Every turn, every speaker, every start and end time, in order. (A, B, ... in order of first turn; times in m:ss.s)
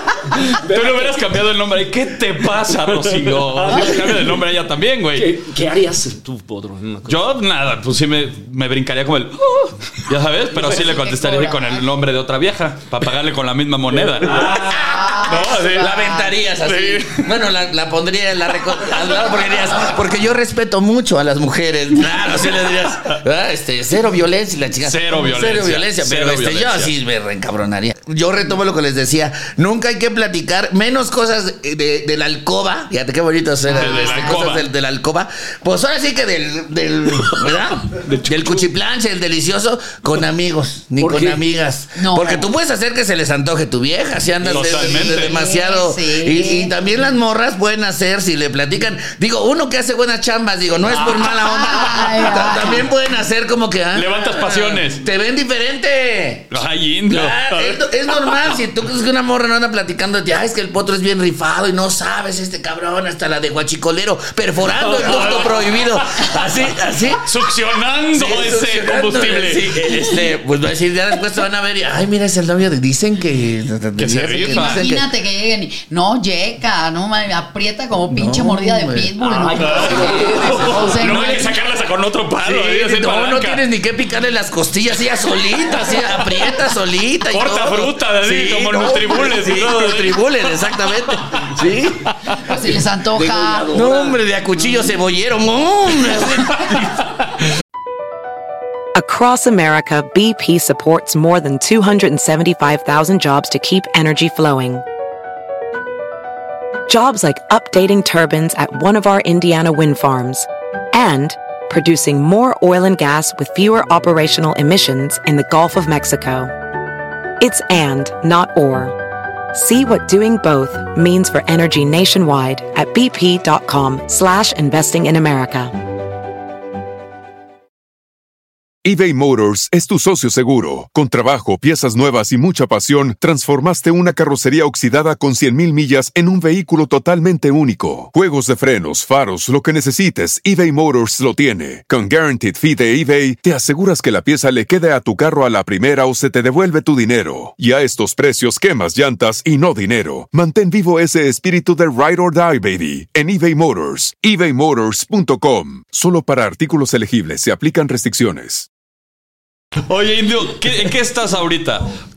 0:00.4-0:01.2 A
0:00.5-0:05.4 B
0:02.9-0:04.4 A
0:05.1-0:07.2 A
0:07.1-0:14.7 B
0:10.6-0:11.8 C
0:13.9-0:14.6 A
0:14.3-0:56.6 D
0:14.6-0:16.3 C
0:15.2-0:16.1 B
0:16.6-0:17.4 B
0:24.8-0:26.9 B
0:33.7-0:34.4 C
0:33.7-0:34.7 B
0:38.0-0:38.6 A
0:41.0-0:41.4 A
0:42.0-0:42.5 C
0:44.4-0:44.8 A
0:44.4-0:45.3 B
0:44.8-0:46.8 C
0:51.3-0:52.8 C
0:53.9-0:55.0 B
0:56.5-0:58.5 B
0:57.1-1:07.2 D
1:04.7-1:06.4 B
1:05.0-1:05.4 A
1:07.2-1:09.8 B
1:08.1-1:15.0 D
1:14.0-1:14.8 B
1:14.4-1:21.5 C
1:18.1-1:19.1 D
1:19.2-1:21.3 A
1:19.6-1:23.6 B
1:22.4-1:32.1 D
1:27.3-1:31.4 B
1:32.4-1:33.7 C
1:33.1-1:34.2 A
1:33.7-1:36.9 D
1:38.9-1:44.8 E
1:46.9-1:56.5 E
1:57.4-1:59.0 E
1:59.5-2:05.7 E
2:08.8-2:38.7 F
2:39.9-2:41.9 B